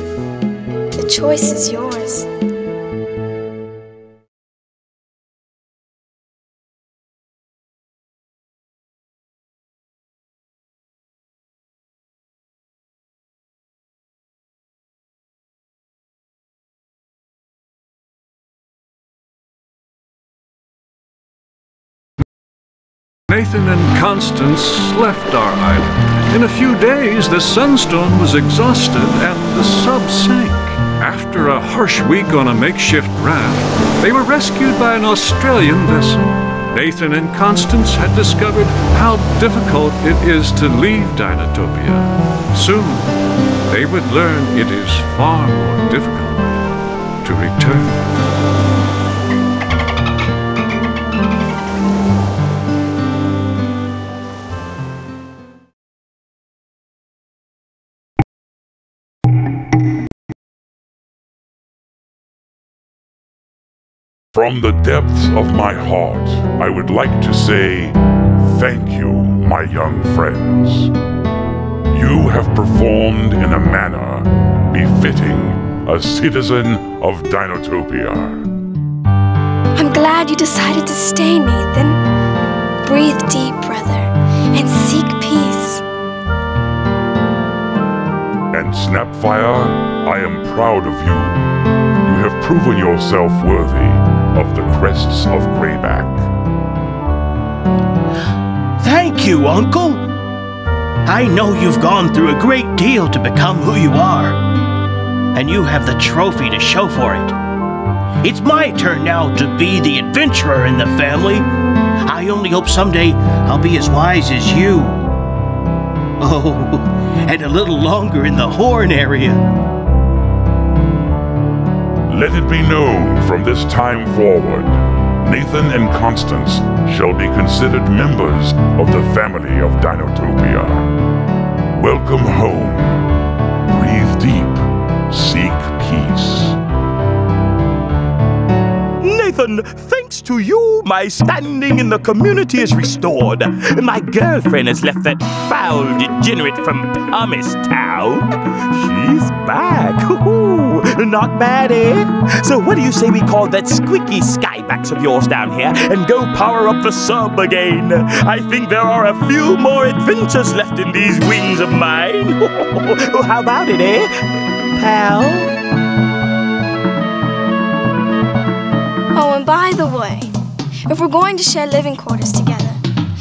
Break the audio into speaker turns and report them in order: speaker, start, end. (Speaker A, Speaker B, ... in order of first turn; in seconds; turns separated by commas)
Speaker A: 0.9-2.3, Speaker B: 23.3-43.1, Speaker B: 43.7-46.6, Speaker B: 47.2-47.9, Speaker C: 64.3-70.9, Speaker C: 71.9-78.5, Speaker A: 79.8-82.0, Speaker A: 82.8-85.8, Speaker C: 88.5-91.4, Speaker C: 92.0-96.2, Speaker D: 98.8-100.0, Speaker D: 101.0-104.4, Speaker D: 105.3-107.3, Speaker D: 108.2-111.5, Speaker D: 112.0-115.0, Speaker D: 116.2-119.4, Speaker C: 122.1-130.9, Speaker C: 131.7-133.0, Speaker C: 133.7-136.6, Speaker E: 139.0-164.1, Speaker E: 164.7-165.5, Speaker A: 169.1-170.3, Speaker A: 170.9-172.8